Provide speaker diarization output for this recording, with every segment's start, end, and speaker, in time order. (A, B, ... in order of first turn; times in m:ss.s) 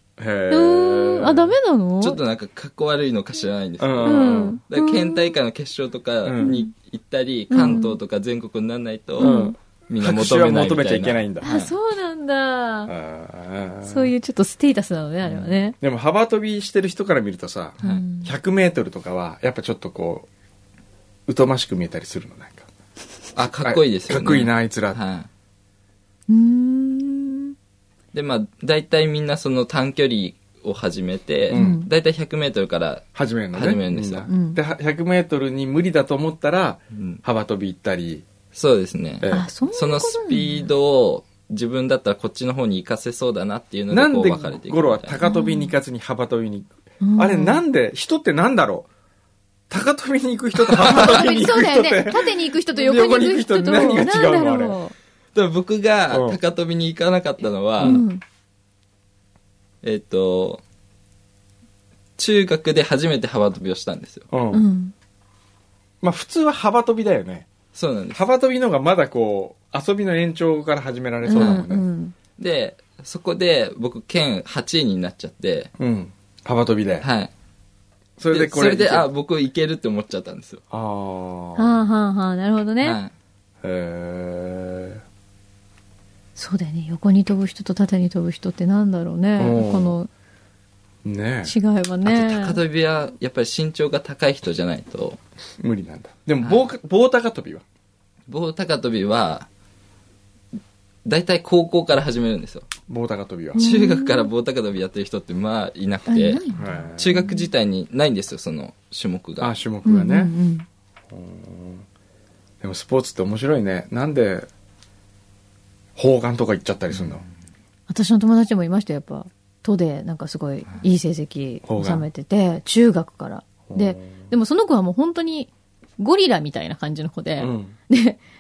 0:00.2-0:01.5 A
0:00.5-0:02.2 B
0:02.0-0:11.7 C
0:03.8-0:04.6 A
0:04.0-0:05.4 B
0:06.2-0:06.6 A
0:06.4-0:06.7 B
0:07.5-0:08.0 B
0:09.2-0:09.6 B
0:09.2-0:11.5 A
0:11.4-0:12.9 B
0:12.9-0:14.1 A
0:13.8-0:15.8 B
0:15.8-0:20.3 A
0:17.8-0:18.3 B
0:21.3-0:22.7 A
0:23.4-0:25.3 C
0:23.6-0:25.0 A
0:26.3-0:27.5 B
0:28.1-0:34.3 C
0:31.5-0:31.8 A
0:31.5-0:31.9 B
0:33.2-0:38.3 A
0:34.3-0:34.6 B
0:36.9-0:37.2 C
0:38.5-0:45.2 C
0:39.2-0:39.5 A
0:39.3-0:40.7 B
0:43.9-0:48.9 A
0:45.2-0:45.7 B
0:47.0-0:47.6 B
0:49.7-0:54.8 A
0:50.7-0:51.0 C
0:50.8-0:54.9 B
0:55.4-0:58.0 C
0:56.1-0:56.4 A
0:57.8-0:58.1 A
0:57.8-0:58.2 B
0:59.8-1:00.6 C
1:02.2-1:04.3 C
1:04.3-1:04.6 A
1:04.5-1:04.9 B
1:06.0-1:07.5 A
1:07.7-1:08.2 C
1:08.1-1:11.8 A
1:11.2-1:12.2 B
1:11.4-1:11.6 C
1:12.4-1:15.7 C
1:15.8-1:17.1 A
1:17.0-1:17.3 C
1:18.2-1:19.1 A
1:18.3-1:20.6 C
1:20.7-1:21.8 A
1:21.6-1:23.0 B
1:22.8-1:23.1 C
1:23.6-1:25.0 A
1:26.4-1:30.1 B
1:29.4-1:30.0 A
1:31.0-1:31.5 A
1:31.4-1:32.6 B
1:32.0-1:35.2 C
1:35.6-1:37.6 A
1:38.3-1:39.5 C
1:41.0-1:42.7 C
1:42.9-1:43.6 A
1:43.5-1:44.3 B
1:43.6-1:46.4 C
1:46.1-1:47.5 B
1:46.6-1:47.3 A
1:47.0-1:49.5 C
1:49.4-1:50.3 A
1:49.8-1:50.7 B
1:51.1-1:51.8 A
1:52.6-1:54.5 A
1:56.0-1:57.2 A
1:57.9-2:08.2 B
2:01.7-2:02.1 A
2:03.7-2:04.2 A
2:07.4-2:07.8 A